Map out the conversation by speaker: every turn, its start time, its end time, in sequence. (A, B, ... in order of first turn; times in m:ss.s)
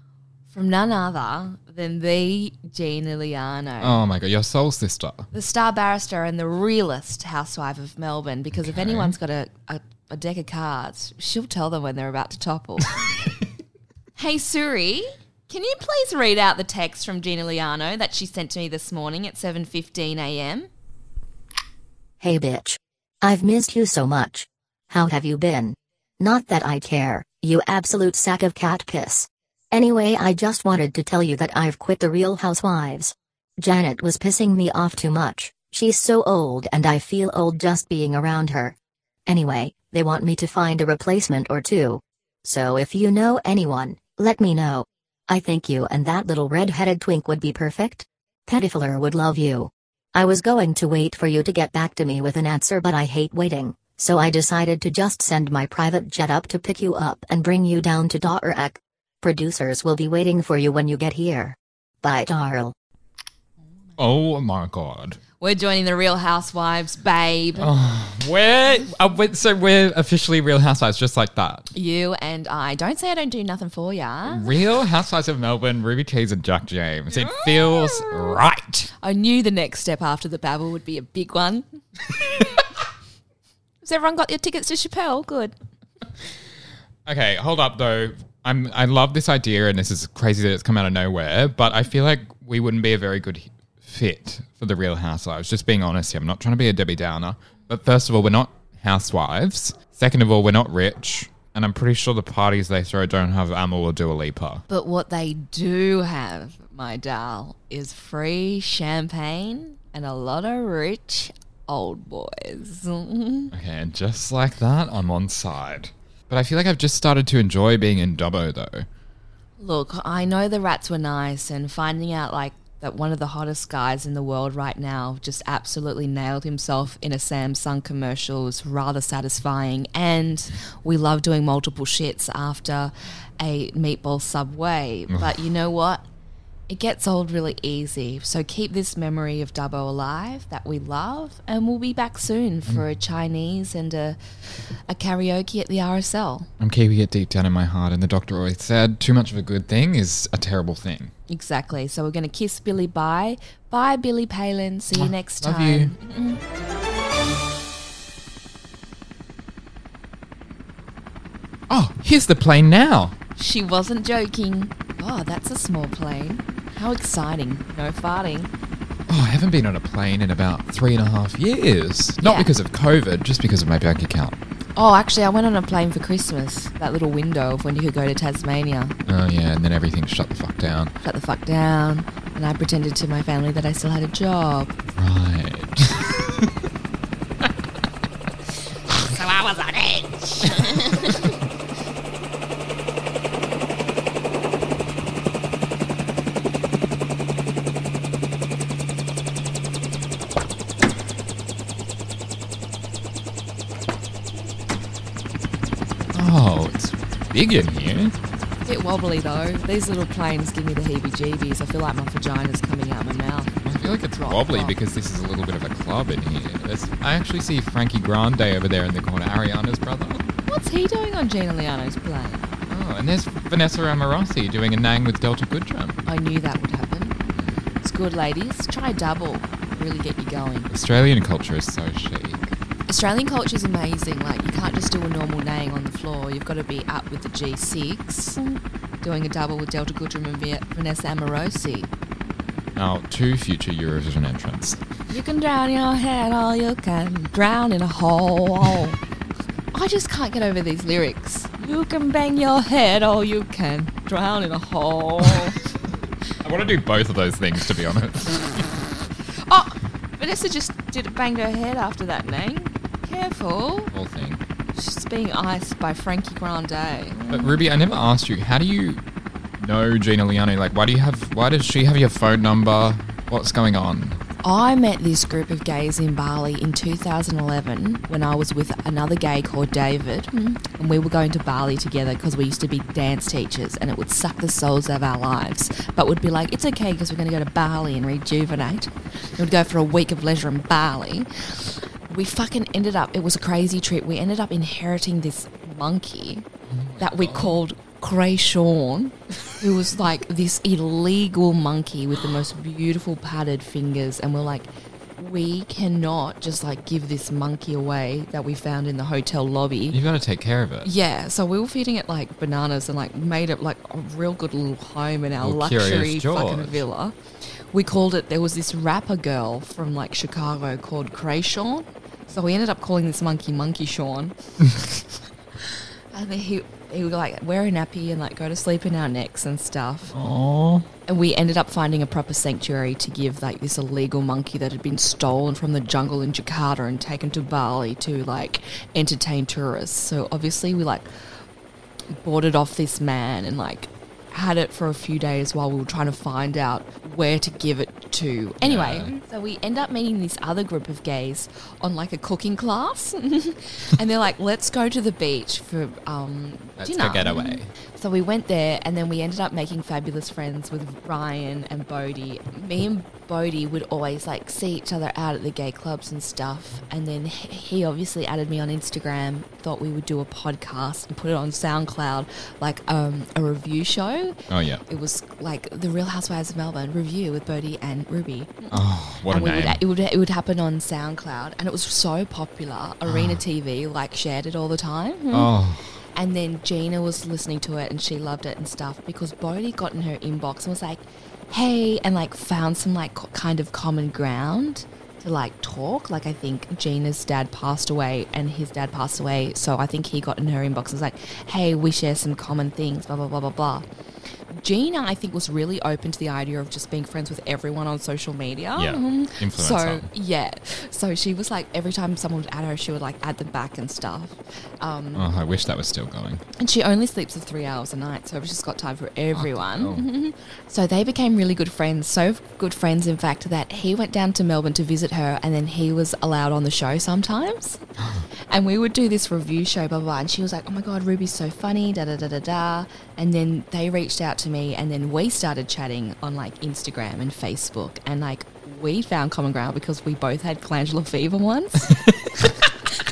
0:00.5-0:04.0 A
0:03.8-0:05.3 B
0:05.3-0:12.9 A
0:08.5-0:09.1 B
0:14.2-0:20.7 A
0:22.2-0:38.8 C
0:39.3-1:02.7 C
1:04.0-1:05.2 B
1:05.4-1:07.7 A
1:07.6-1:11.7 B
1:11.7-1:14.5 A
1:14.3-1:18.9 B
1:17.2-1:18.4 A
1:19.0-1:21.6 A
1:23.8-1:25.6 A
1:27.1-1:44.6 B
1:44.7-1:53.5 A
1:53.5-1:58.9 B
1:59.6-2:16.1 A
2:16.7-2:24.2 A
2:24.9-2:26.5 A
2:26.6-2:31.1 B
2:31.3-2:36.4 A
2:34.9-2:35.9 B
2:41.7-2:43.1 B
2:43.4-2:48.5 A
2:49.1-2:54.4 B
2:52.2-2:52.5 A
2:54.8-2:59.0 A
2:59.1-3:00.9 B
3:01.0-3:04.7 A
3:04.9-3:06.5 B
3:09.0-3:11.3 A
3:26.1-3:28.1 B
3:28.6-3:34.7 A
3:33.6-3:40.3 B
3:40.4-3:42.5 A
3:42.7-3:46.0 B
3:46.0-3:47.2 A
3:47.3-3:47.6 B
3:47.8-3:50.7 A
3:50.7-3:52.5 B
3:52.9-4:01.9 A
4:02.8-4:04.8 B
4:05.1-4:09.0 A
4:09.7-4:15.6 A
4:16.4-4:18.6 B
4:19.5-4:23.9 A
4:23.9-4:24.4 B
4:24.7-4:27.6 A
4:27.3-4:29.0 B
4:29.6-4:34.2 B
4:34.4-4:56.5 A
4:56.7-4:57.6 B
4:57.0-5:10.0 A
5:09.9-5:10.9 B
5:10.8-5:17.1 A
5:15.4-5:16.8 B
5:17.7-5:24.4 A
5:26.1-5:30.1 A
5:30.1-5:30.9 B
5:31.1-5:41.1 A
5:42.1-6:14.4 A
5:48.6-5:49.1 B
5:56.8-5:57.7 B
6:14.5-6:14.8 B
6:14.9-6:25.5 A
6:18.7-6:19.8 B
6:23.1-6:23.4 B
6:25.3-6:26.0 B
6:26.1-6:43.9 A
6:44.5-6:55.3 A
6:48.8-6:50.1 B
6:55.1-6:56.4 B
6:56.6-7:07.8 A
6:59.3-7:00.0 B
7:08.0-7:08.3 B
7:08.5-7:21.9 A
7:21.9-7:22.5 B